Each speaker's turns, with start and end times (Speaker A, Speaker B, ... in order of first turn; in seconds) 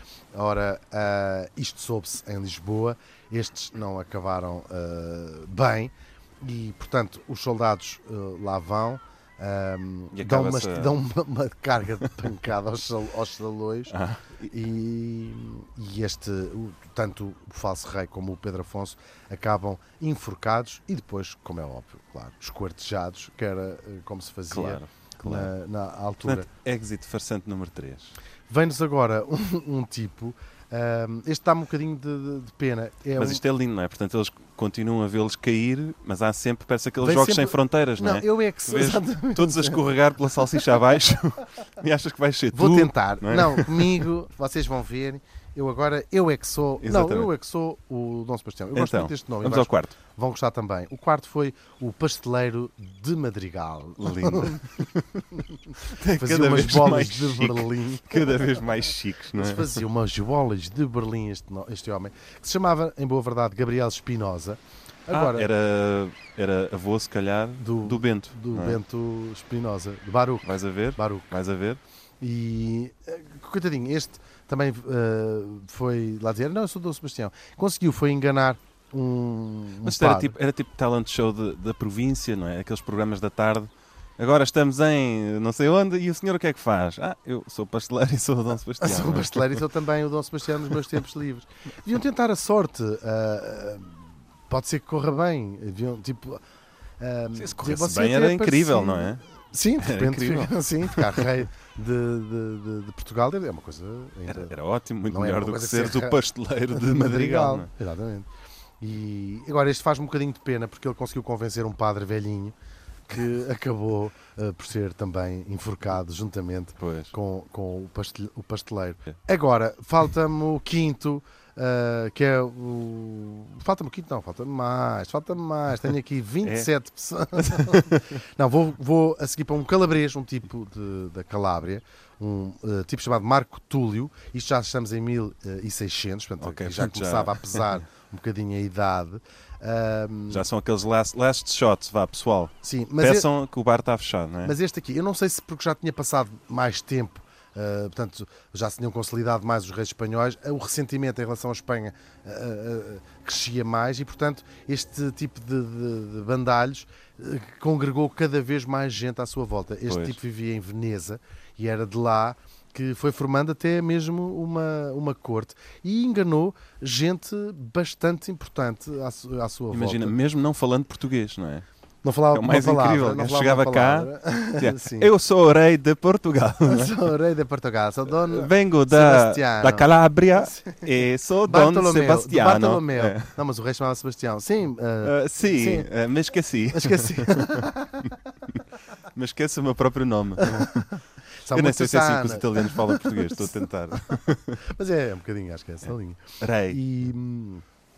Speaker A: 0.3-13.9, 14.5-26.5, 28.5-33.4, 37.0-39.9, 42.5-54.8, 55.4-58.4, 59.3-65.5, 67.6-71.3, 72.2-80.3, 88.8-96.4, 97.0-104.6, 105.1-108.3, 108.8-112.5, 113.1-140.4, 142.6-143.3, 144.4-170.2, 172.0-175.1, 176.7-180.9, 181.4-185.9, 186.7-188.2, 190.4-193.6, 194.6-197.6
Speaker B: 10.1-10.9, 13.9-14.5, 24.5-25.5, 26.2-28.1, 33.2-44.1, 46.8-47.3, 48.7-50.0, 54.0-59.8, 65.1-68.8, 70.4-71.8, 79.8-89.6, 97.3-99.2, 99.8-101.4, 104.3-107.7, 116.8-117.1, 126.4-126.7, 127.4-128.0, 136.4-137.8, 140.3-144.6, 159.9-160.2, 169.7-171.7, 172.3-177.1, 178.1-183.3, 185.0-190.9, 191.5-194.6, 195.9-196.8